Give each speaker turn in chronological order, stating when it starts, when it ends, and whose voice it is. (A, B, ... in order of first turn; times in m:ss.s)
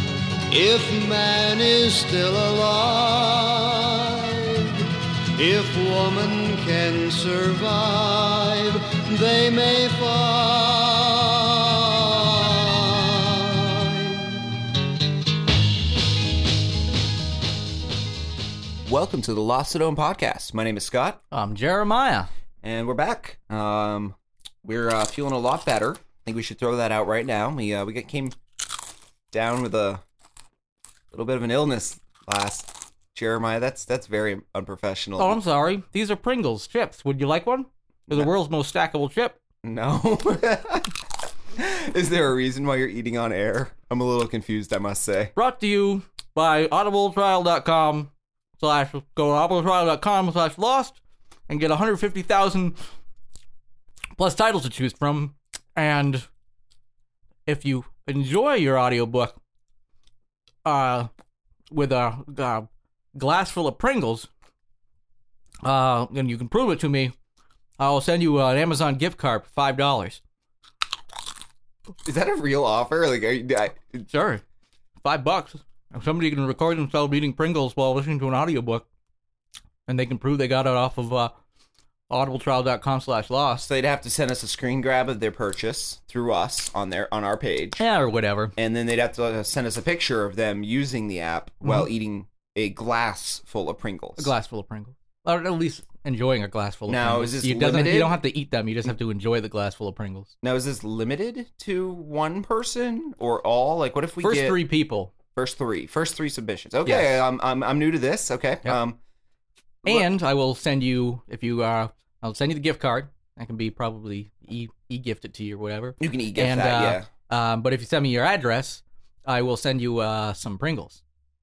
0:00.5-0:14.4 A
0:18.8-0:21.2 B
0:21.3-0:22.3 C
0:22.6-0:28.4 B
0:29.3-0:30.0 B
0:31.1-0:35.4 B
0:35.2-0:39.4 C
0:39.6-0:40.9 B
0:41.6-0:45.3 B
0:45.4-0:52.8 C
0:54.2-0:56.3 C
0:57.5-0:59.4 C
1:00.6-1:01.1 C
1:01.7-1:04.3 C
1:05.6-1:07.1 C
1:07.8-1:10.2 C
1:12.0-1:14.0 B
1:14.1-1:14.4 C
1:15.0-1:18.9 C
1:19.9-1:21.3 C
1:22.1-1:23.7 C
1:23.6-1:27.8 B
1:27.8-1:28.6 C
1:28.6-1:34.3 B
1:34.2-1:40.3 C
1:36.9-1:38.2 B
1:40.4-1:44.6 B
1:44.2-1:45.1 C
1:45.4-1:49.0 B
1:46.8-1:47.2 C
1:49.8-2:01.0 C
1:56.0-1:57.1 B